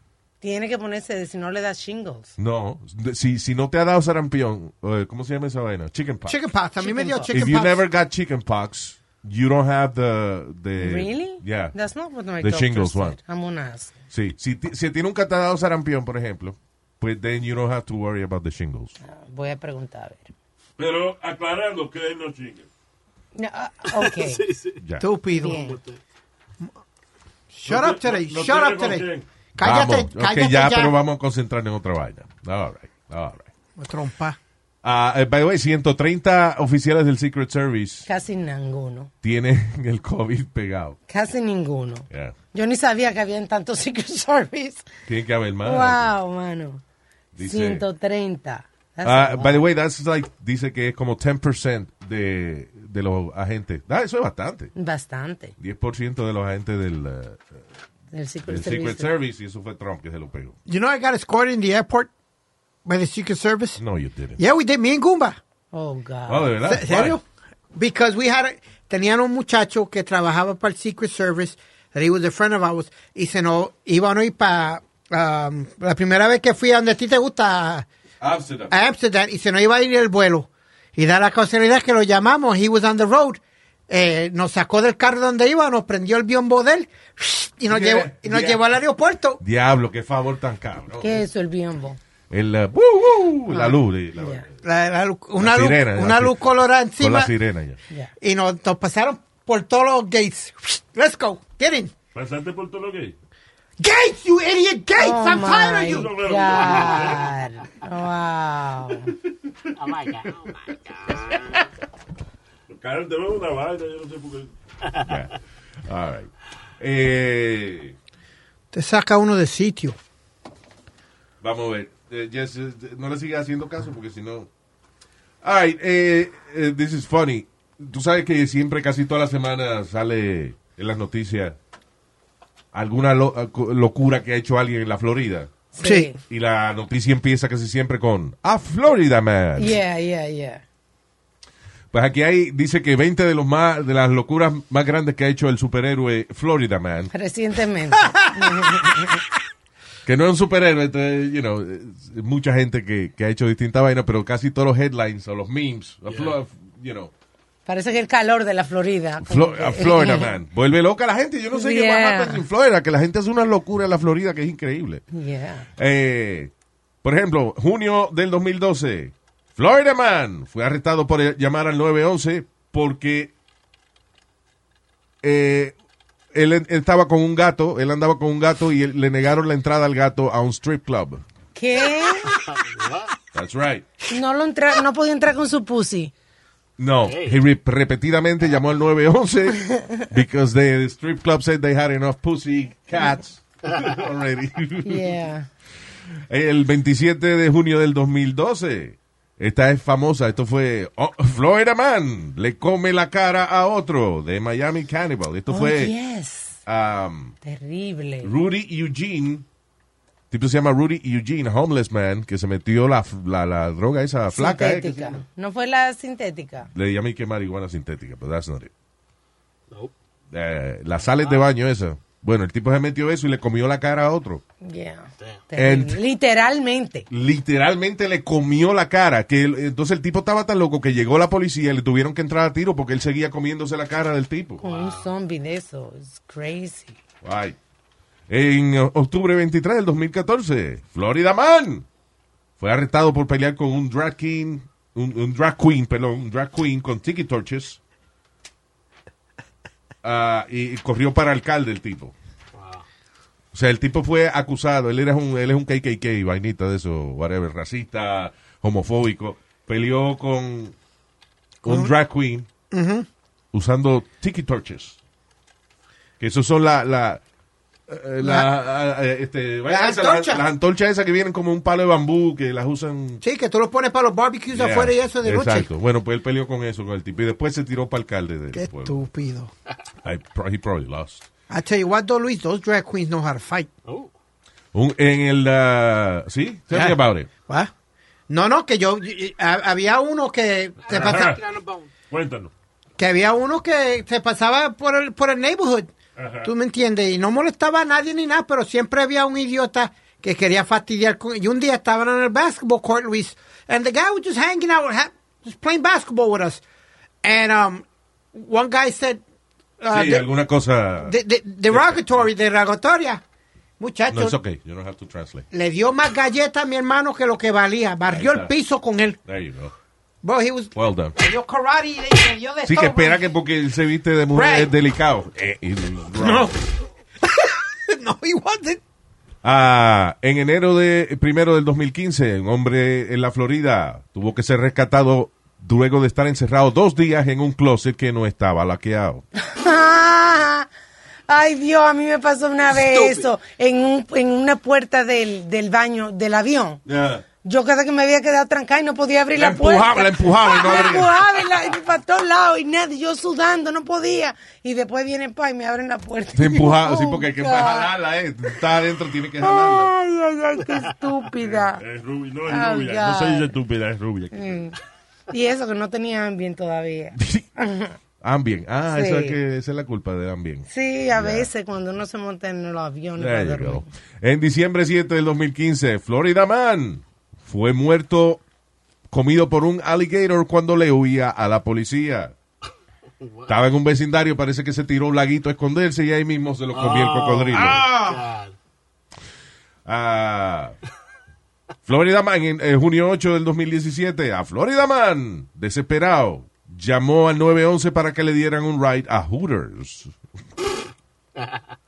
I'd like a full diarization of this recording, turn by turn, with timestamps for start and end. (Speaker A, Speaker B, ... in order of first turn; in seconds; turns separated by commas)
Speaker A: 0.4-2.3, Speaker B: 2.4-6.4, Speaker C: 6.3-7.8, Speaker A: 6.8-7.3, Speaker B: 7.3-11.7, Speaker A: 10.8-13.9, Speaker B: 12.4-13.2, Speaker B: 14.1-19.0, Speaker A: 19.0-20.3, Speaker D: 20.8-22.7, Speaker A: 23.4-24.4, Speaker E: 23.9-24.8, Speaker C: 25.0-25.6, Speaker A: 25.3-25.8, Speaker E: 25.4-26.0, Speaker C: 27.5-29.1, Speaker D: 27.6-29.2, Speaker B: 29.6-33.5, Speaker C: 29.6-30.9, Speaker C: 33.8-34.4, Speaker B: 34.8-38.1, Speaker A: 38.0-39.1, Speaker B: 39.2-41.0, Speaker A: 41.1-44.8, Speaker B: 42.1-42.3, Speaker B: 45.1-46.1, Speaker A: 45.6-46.8, Speaker B: 47.3-47.8, Speaker A: 47.4-49.6, Speaker B: 49.0-54.7, Speaker A: 54.8-55.5, Speaker B: 55.6-57.6, Speaker A: 58.1-59.1, Speaker B: 58.5-60.5, Speaker C: 60.7-62.1, Speaker C: 62.8-63.8, Speaker B: 63.8-64.4, Speaker C: 64.4-65.4, Speaker A: 65.7-66.5, Speaker B: 66.3-67.2, Speaker C: 66.7-77.9, Speaker B: 78.2-78.7, Speaker C: 78.7-89.4, Speaker B: 87.7-88.6, Speaker B: 89.4-91.2, Speaker A: 91.0-92.0, Speaker B: 92.3-94.5, Speaker A: 93.5-94.4, Speaker C: 94.6-97.3, Speaker B: 95.4-97.8, Speaker C: 98.2-101.9, Speaker D: 102.1-103.1, Speaker C: 103.8-106.1, Speaker A: 105.0-109.1, Speaker D: 105.8-107.2, Speaker E: 109.8-111.6, Speaker D: 112.7-114.5, Speaker B: 115.0-115.3, Speaker B: 115.8-118.0, Speaker C: 118.7-120.0, Speaker B: 121.4-124.5, Speaker B: 125.4-131.6, Speaker B: 132.7-135.5, Speaker A: 135.7-136.2, Speaker C: 135.8-136.1, Speaker B: 136.3-139.8, Speaker A: 139.6-140.6, Speaker B: 141.9-147.1, Speaker A: 147.1-149.2, Speaker B: 150.0-157.1, Speaker A: 157.7-160.3, Speaker B: 159.2-165.0, Speaker A: 161.5-162.4, Speaker A: 165.1-165.7, Speaker B: 165.8-166.5, Speaker B: 167.0-173.3, Speaker B: 175.2-175.7, Speaker B: 176.3-181.2, Speaker A: 181.5-182.3, Speaker E: 182.3-183.1, Speaker B: 183.3-183.9, Speaker A: 184.1-186.1, Speaker B: 186.8-195.1, Speaker E: 187.0-187.4, Speaker A: 194.8-195.5, Speaker B: 196.3-205.9, Speaker A: 205.5-206.6, Speaker B: 206.7-207.3, Speaker A: 207.4-208.3, Speaker B: 208.2-209.4, Speaker B: 210.3-215.2, Speaker A: 214.3-216.7, Speaker B: 216.7-218.7, Speaker B: 220.3-224.4, Speaker A: 224.6-227.1, Speaker B: 225.6-226.0, Speaker B: 227.1-234.6, Speaker A: 234.6-237.0, Speaker E: 234.6-235.1, Speaker B: 237.2-237.6, Speaker B: 238.3-241.8, Speaker B: 242.6-247.8, Speaker B: 250.0-252.1, Speaker E: 252.6-252.8, Speaker B: 253.5-260.7, Speaker B: 261.6-262.5, Speaker C: 261.6-261.9, Speaker C: 262.7-263.1, Speaker B: 263.5-265.0, Speaker B: 266.2-267.2, Speaker B: 267.9-273.2, Speaker C: 268.2-268.5, Speaker C: 269.7-270.4, Speaker C: 273.2-275.7, Speaker B: 274.5-279.0, Speaker C: 278.5-279.5, Speaker B: 280.0-281.2, Speaker C: 281.5-283.7, Speaker B: 284.7-287.3, Speaker C: 286.7-287.7, Speaker C: 288.3-291.4, Speaker D: 290.9-291.4, Speaker E: 290.9-291.9, Speaker D: 292.1-292.5, Speaker C: 293.0-295.9, Speaker D: 296.2-296.5, Speaker C: 296.4-306.6, Speaker C: 307.2-309.2, Speaker C: 309.8-310.3, Speaker B: 309.9-311.1, Speaker C: 311.0-313.2, Speaker B: 311.7-312.2, Speaker C: 313.8-314.4, Speaker B: 314.1-315.5, Speaker C: 315.5-319.2, Speaker B: 318.1-318.5, Speaker B: 319.2-319.7, Speaker C: 320.2-323.2, Speaker B: 320.7-321.1, Speaker B: 322.6-326.5, Speaker C: 324.3-324.7, Speaker C: 326.2-326.6, Speaker C: 327.2-328.8, Speaker B: 329.4-339.2, Speaker A: 339.5-340.7, Speaker A: 341.3-346.8, Speaker E: 342.7-343.3, Speaker B: 346.9-347.2, Speaker A: 347.4-357.9, Speaker B: 349.3-351.1, Speaker B: 356.3-359.9, Speaker A: 359.4-361.8, Speaker D: 361.7-364.6, Speaker A: 362.5-363.5, Speaker A: 364.3-364.8, Speaker A: 365.3-367.9, Speaker B: 367.2-367.4, Speaker B: 368.2-371.5, Speaker A: 368.9-369.4, Speaker A: 370.7-373.9, Speaker B: 373.2-378.4, Speaker B: 379.1-382.3, Speaker E: 383.2-383.5, Speaker B: 383.5-388.2, Speaker E: 386.7-388.5, Speaker B: 389.9-390.7, Speaker B: 391.9-400.1